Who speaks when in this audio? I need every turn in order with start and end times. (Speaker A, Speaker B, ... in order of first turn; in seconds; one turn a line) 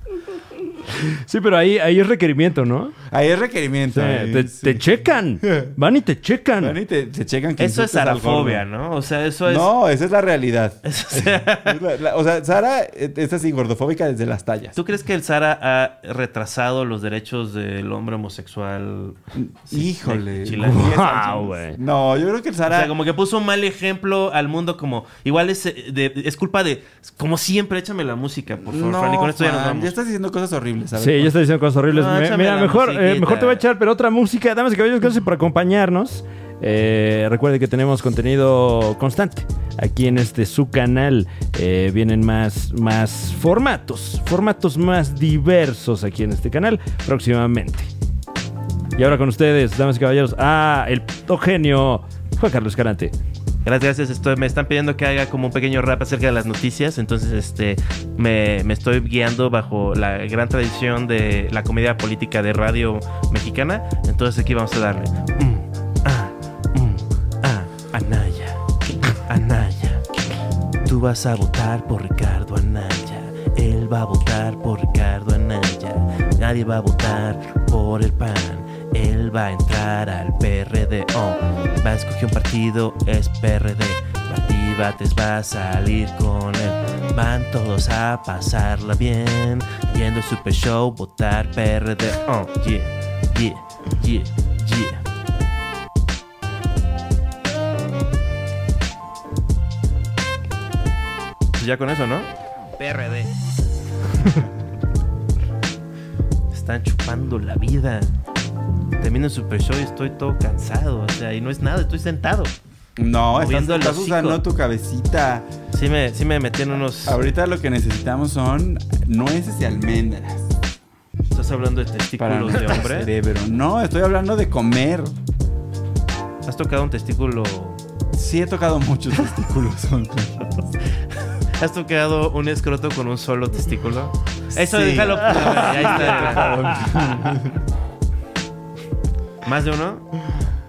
Speaker A: 0.9-3.0
Speaker B: 3.1-4.9
Speaker A: 3.9-6.8
Speaker B: 5.4-5.7
Speaker B: 6.6-8.6
Speaker C: 7.6-9.7
Speaker B: 9.4-10.8
Speaker C: 10.8-11.8
Speaker B: 11.6-14.8
Speaker C: 14.8-19.2
Speaker B: 19.4-22.9
Speaker C: 19.7-21.1
Speaker A: 20.6-21.8
Speaker C: 22.7-30.0
Speaker B: 28.6-31.3
Speaker A: 31.0-47.9
Speaker C: 31.9-33.6
Speaker A: 49.0-53.1
Speaker C: 53.6-68.6
Speaker C: 69.1-70.0
Speaker C: 70.8-95.0
Speaker C: 101.6-103.3
Speaker C: 106.5-108.1
Speaker C: 109.0-112.6
Speaker B: 113.0-115.5
Speaker C: 113.3-114.4
Speaker C: 115.7-117.2
Speaker B: 117.0-120.5
Speaker C: 121.3-123.1
Speaker B: 122.2-125.2
Speaker C: 126.5-127.8
Speaker B: 128.1-130.6
Speaker C: 131.6-137.0
Speaker B: 134.5-137.6
Speaker A: 136.4-137.1
Speaker C: 139.4-140.1